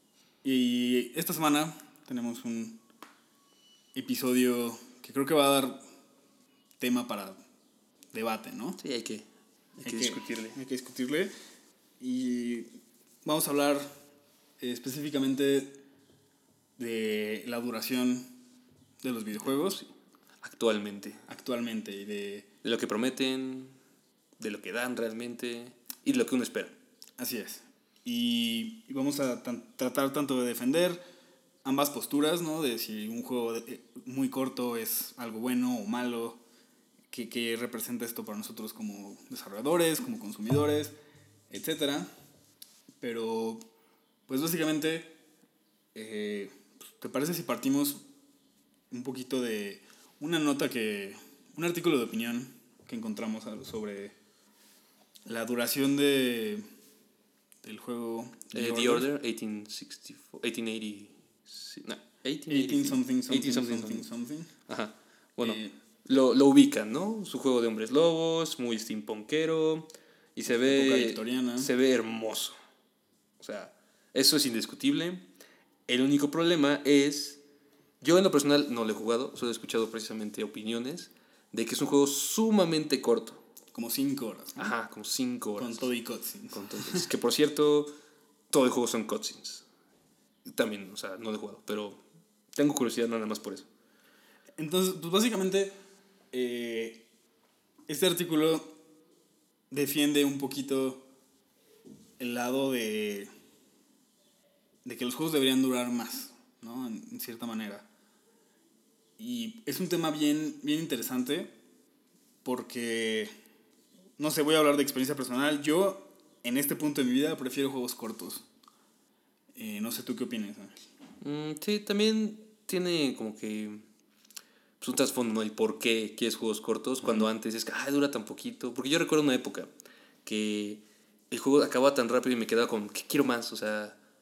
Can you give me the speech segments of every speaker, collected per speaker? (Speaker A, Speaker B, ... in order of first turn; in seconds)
Speaker A: 0.4-2.8, 3.9-5.8, 6.8-7.4, 8.1-8.8, 9.8-11.3, 12.0-13.9, 14.6-15.8, 16.8-18.3, 19.0-19.8, 21.3-22.4, 27.2-31.0, 31.6-36.4, 37.1-40.9, 41.5-42.1, 43.0-43.6, 44.3-45.1, 45.9-48.0, 48.9-54.1, 55.2-56.7, 57.6-59.1, 62.5-64.5, 65.4-65.7, 70.7-71.7, 83.7-84.7, 85.6-87.1, 94.6-95.7, 96.3-97.0, 97.9-98.7, 99.7-101.0, 102.2-103.3, 104.8-107.8, 109.2-111.5, 112.4-113.3, 114.2-118.4, 119.5-120.8
Speaker B: 8.8-9.2, 9.8-10.6, 19.4-19.9, 20.4-21.2, 22.6-23.8, 24.4-26.7, 58.5-64.1, 64.7-72.5, 73.4-75.2, 75.9-77.4, 78.0-83.4, 84.6-85.9, 86.5-87.9, 88.5-89.6, 90.4-92.0, 92.5-93.7, 121.2-123.8, 124.8-129.7, 130.2-133.9